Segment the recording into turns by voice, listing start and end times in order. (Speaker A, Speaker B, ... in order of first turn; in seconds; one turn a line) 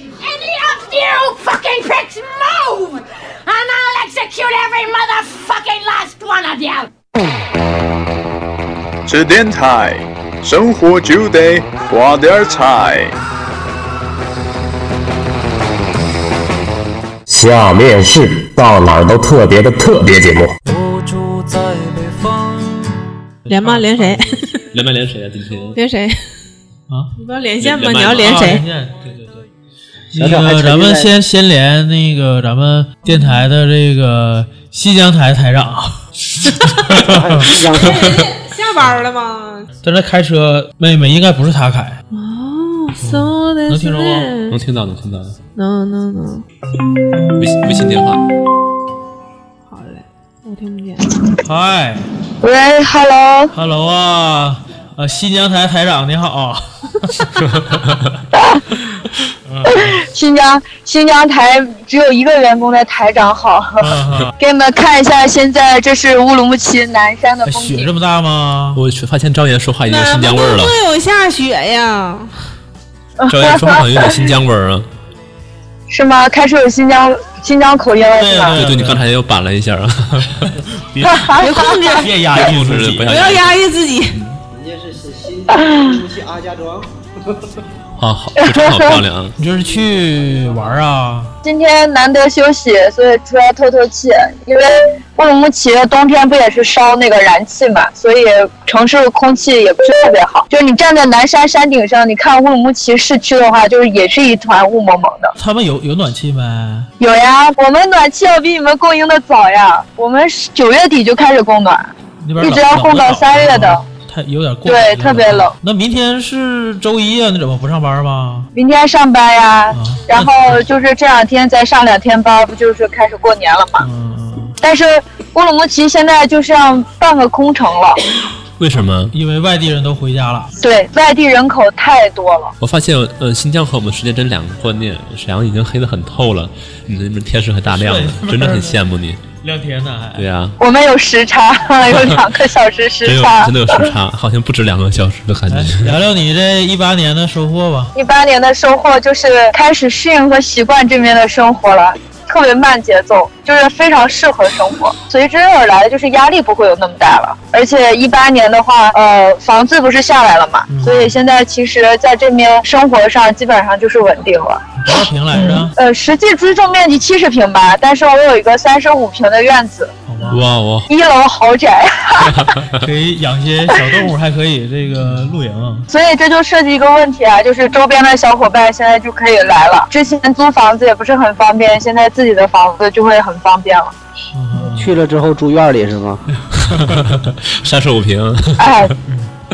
Speaker A: 0.2-6.9
Speaker B: 9.1-13.2
Speaker C: 17.3-20.6
Speaker D: 20.7-22.8
Speaker E: 23.5-24.2
Speaker F: 23.5-24.6
Speaker G: 24.7-25.8
Speaker F: 25.7-26.2
Speaker F: 27.2-28.6
Speaker G: 27.6-28.6
Speaker E: 28.1-29.5
Speaker E: 30.1-37.6
Speaker H: 30.2-31.1
Speaker F: 33.1-33.4
Speaker H: 37.0-38.0
Speaker F: 37.7-39.7
Speaker G: 37.9-38.3
Speaker E: 39.8-42.0
Speaker F: 42.1-44.6
Speaker E: 43.0-44.3
Speaker G: 44.5-45.4
Speaker F: 45.6-46.5
Speaker G: 47.4-48.2
Speaker F: 49.7-51.1
Speaker E: 51.4-52.1
Speaker I: 52.4-53.5
Speaker E: 53.5-57.8
Speaker I: 58.3-58.6
Speaker E: 58.8-60.0
Speaker I: 59.7-67.9
Speaker E: 63.8-64.3
Speaker E: 67.5-68.8
Speaker G: 68.8-70.8
Speaker F: 69.9-72.3
Speaker I: 73.2-74.2
Speaker G: 73.3-74.9
Speaker I: 75.9-78.6
Speaker E: 78.2-79.0
Speaker G: 78.5-81.3
Speaker E: 80.3-80.6
Speaker I: 81.0-81.8
Speaker F: 81.3-82.1
Speaker E: 82.0-83.2
Speaker G: 82.3-83.7
Speaker F: 83.0-84.2
Speaker H: 84.5-86.9
Speaker G: 88.0-89.4
Speaker I: 88.5-89.0
Speaker E: 89.4-91.3
Speaker I: 91.4-105.3
Speaker E: 105.4-106.9
Speaker I: 107.0-113.8
Speaker E: 112.2-118.5
Speaker I: 114.7-115.5
Speaker I: 118.5-123.9
Speaker E: 119.7-120.6
Speaker E: 123.8-124.6
Speaker I: 124.6-128.0
Speaker G: 128.6-129.1
Speaker E: 129.1-130.5
Speaker I: 130.6-132.5
Speaker G: 132.6-139.2
Speaker E: 137.7-138.8
Speaker E: 139.4-140.3
Speaker G: 140.2-140.6
Speaker I: 140.6-143.5
Speaker G: 143.1-145.9
Speaker E: 145.5-147.9
Speaker I: 147.9-164.6
Speaker E: 160.7-161.2
Speaker E: 164.8-165.8
Speaker I: 165.3-169.9
Speaker E: 170.1-170.5
Speaker G: 170.3-170.9
Speaker I: 170.9-172.5
Speaker E: 172.8-175.9
Speaker I: 175.9-183.9
Speaker E: 184.3-184.9
Speaker H: 184.8-186.2
Speaker G: 186.6-188.7
Speaker E: 186.7-187.2
Speaker I: 188.6-188.9